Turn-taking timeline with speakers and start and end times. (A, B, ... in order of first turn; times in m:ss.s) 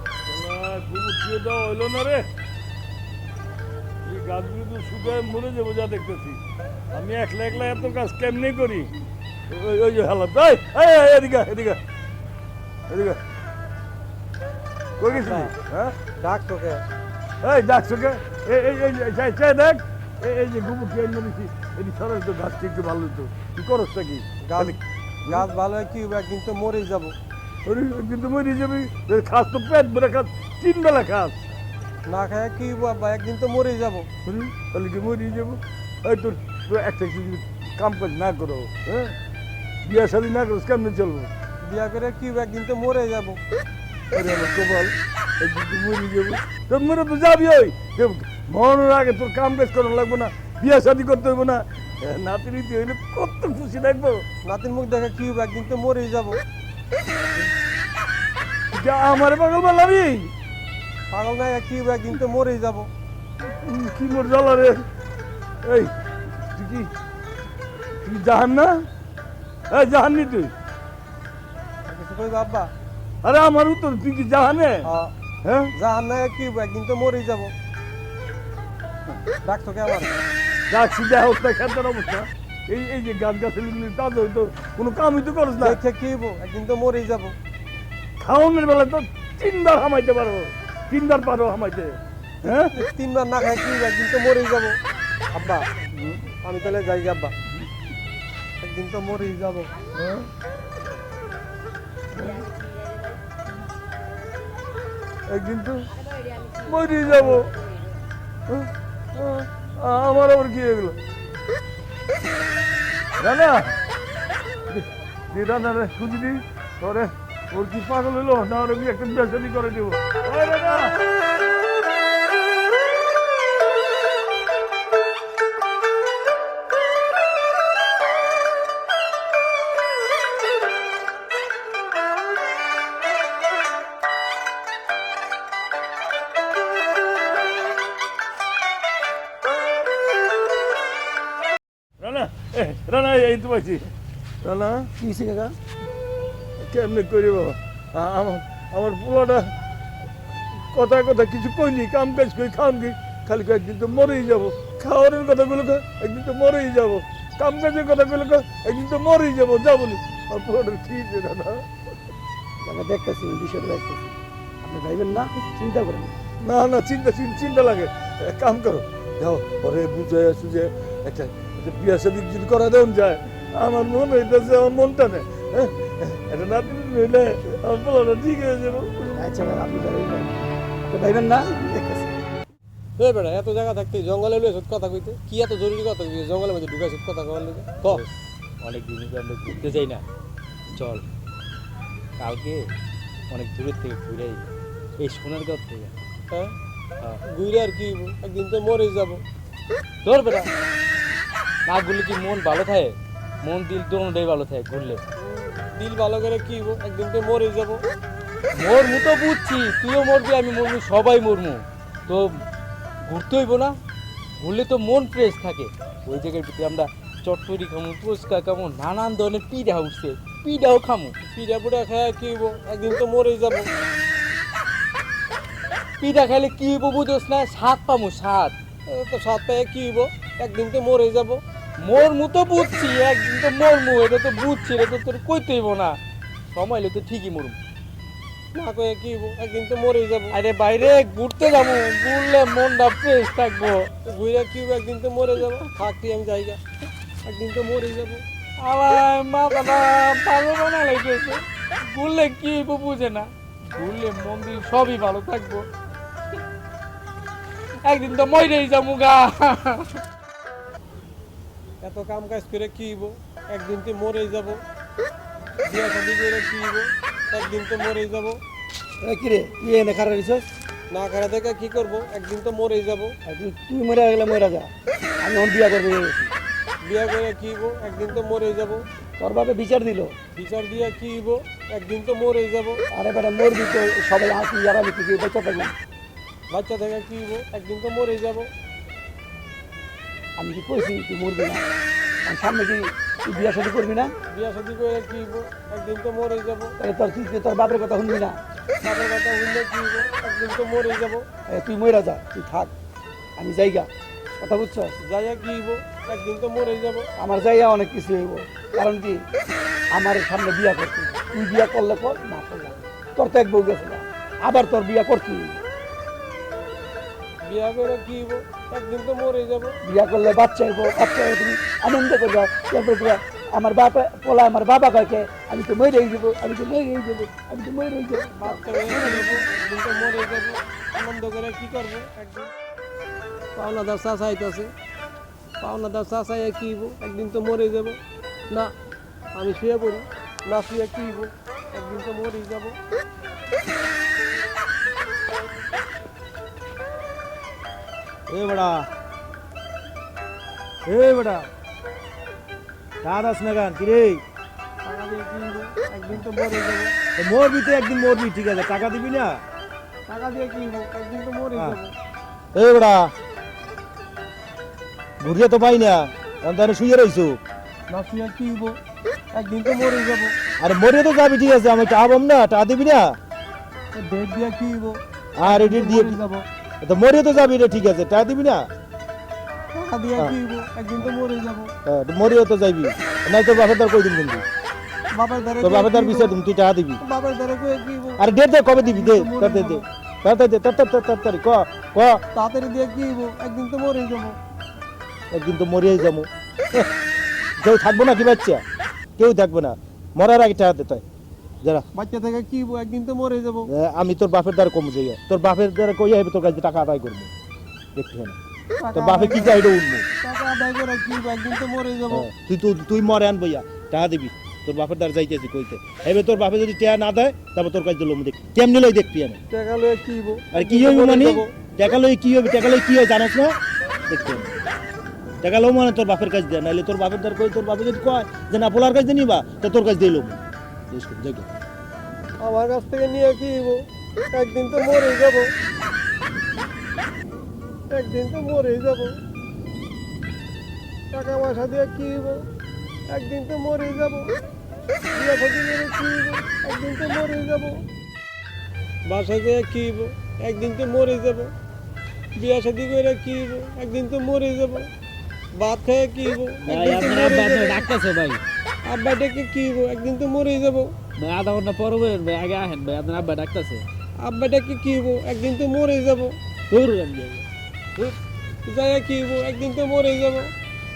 0:00.2-0:02.3 A
0:04.0-0:06.4 A
0:06.9-0:08.9 A
0:09.5-0:11.8 A
0:12.9-0:13.2 A
0:15.0-0:16.0 A
0:15.1-0:15.5 B
0:16.2-0:16.8 B
0:17.4-0:25.5 A
0:24.4-0:27.1 B
0:27.6-0:31.3 A
0:32.1-0:34.1 B
0:34.2-0:39.1 A
0:39.8-0:41.3 A
0:41.6-0:43.4 B
0:44.1-0:54.2 A
0:54.4-0:56.4 B
0:58.7-1:00.3 A
1:01.1-1:02.9 B
1:03.6-1:04.8 A
1:05.6-1:05.9 A
1:06.5-1:06.9 A
1:08.0-1:08.8 A
1:09.7-1:10.5 A
1:11.8-1:12.7 B
1:13.2-1:14.9 A
1:14.8-1:15.1 B
1:15.4-1:15.7 A
1:15.7-1:17.5 B
1:19.4-1:20.2 B
1:20.7-1:25.8 A
1:25.6-1:27.3 B
1:28.2-1:32.7 A
1:32.5-1:34.8 B
1:35.3-1:35.7 B
1:36.4-1:37.3 B
1:38.6-1:39.7 B
1:40.0-1:40.3 A
1:42.2-1:42.5 A
1:45.3-1:45.8 A
1:46.5-1:47.5 A
1:48.5-1:51.0 A
1:53.2-1:53.7 A
1:54.7-2:01.0 A
2:22.0-2:23.9 A
2:24.4-2:24.9 A
2:25.0-2:25.6 C
2:26.6-2:29.5 A
2:30.7-2:41.6 A
2:42.6-2:46.2 C
2:46.4-2:59.1 A
2:59.2-3:02.2 C
3:03.0-3:08.0 B
3:07.8-3:10.0 D
3:10.7-3:11.0 D
3:12.2-3:12.6 D
3:13.3-3:15.9 D
3:17.2-3:19.2 B
3:20.0-3:20.5 D
3:21.6-3:25.0 D
3:25.2-3:27.8 B
3:28.5-3:32.3 D
3:33.0-3:33.8 D
3:34.4-3:41.1 D
3:41.3-3:43.7 B
3:46.0-3:48.5 D
3:48.9-3:51.4 B
3:51.8-3:56.0 D
3:56.5-3:57.6 D
3:58.5-4:00.4 B
4:00.3-4:03.9 D
4:04.0-4:06.6 B
4:07.2-4:08.2 B
4:08.6-4:15.7 D
4:17.8-4:20.0 D
4:21.8-4:24.6 B
4:25.6-4:28.4 B
4:29.0-4:30.5 C
4:30.9-4:33.1 B
4:33.3-4:34.7 C
4:35.2-4:36.3 C
4:36.8-4:38.8 B
4:39.2-4:40.2 C
4:40.3-4:42.8 B
4:42.9-4:45.8 C
4:46.5-4:48.5 B
4:50.4-4:51.6 C
4:52.2-4:54.1 C
4:54.3-4:56.7 B
4:56.8-4:58.4 C
4:58.8-5:01.2 B
5:01.5-5:02.7 C
5:03.4-5:04.9 C
5:05.0-5:07.1 B
5:07.2-5:09.2 C
5:09.9-5:15.6 C
5:17.4-5:19.8 B
5:19.8-5:29.3 C
5:28.4-5:32.5 B
5:33.5-5:34.7 B
5:35.6-5:38.0 B
5:39.3-5:42.8 B
5:48.3-5:48.9 E
5:50.9-5:51.5 E
5:53.0-5:54.2 E
5:54.8-5:56.9 B
5:57.2-5:59.4 E
6:00.1-6:01.9 B
6:02.5-6:03.1 E
6:05.2-6:07.4 E
6:07.9-6:08.8 B
6:09.3-6:10.3 B
6:10.6-6:13.2 E
6:13.9-6:16.4 B
6:15.4-6:16.2 E
6:16.8-6:18.7 E
6:19.7-6:21.7 B
6:21.8-6:24.4 E
6:25.1-6:26.3 B
6:25.6-6:27.0 E
6:27.0-6:28.2 B
6:28.2-6:32.2 E
6:28.8-6:29.8 B
6:32.3-6:34.4 B
6:35.3-6:36.9 E
6:37.6-6:38.6 E
6:39.2-6:41.0 E
6:41.9-6:43.7 B
6:43.7-6:47.3 E
6:47.9-6:48.4 E
6:48.8-6:49.7 B
6:48.9-6:50.0 E
6:50.2-6:52.3 B
6:52.1-6:59.4 E
6:59.5-7:01.5 B
7:00.5-7:03.5 E
7:04.1-7:04.5 E
7:05.4-7:11.5 E
7:12.4-7:15.5 B
7:17.9-7:19.1 B
7:21.1-7:22.4 B
7:23.1-7:24.3 B
7:25.1-7:27.8 B
7:29.0-7:31.5 B
7:32.4-7:34.9 B
7:35.6-7:37.9 B
7:36.6-7:38.4 D
7:38.8-7:40.9 B
7:41.2-7:43.8 D
7:44.2-7:46.3 B
7:46.7-7:47.4 D
7:48.6-7:50.5 B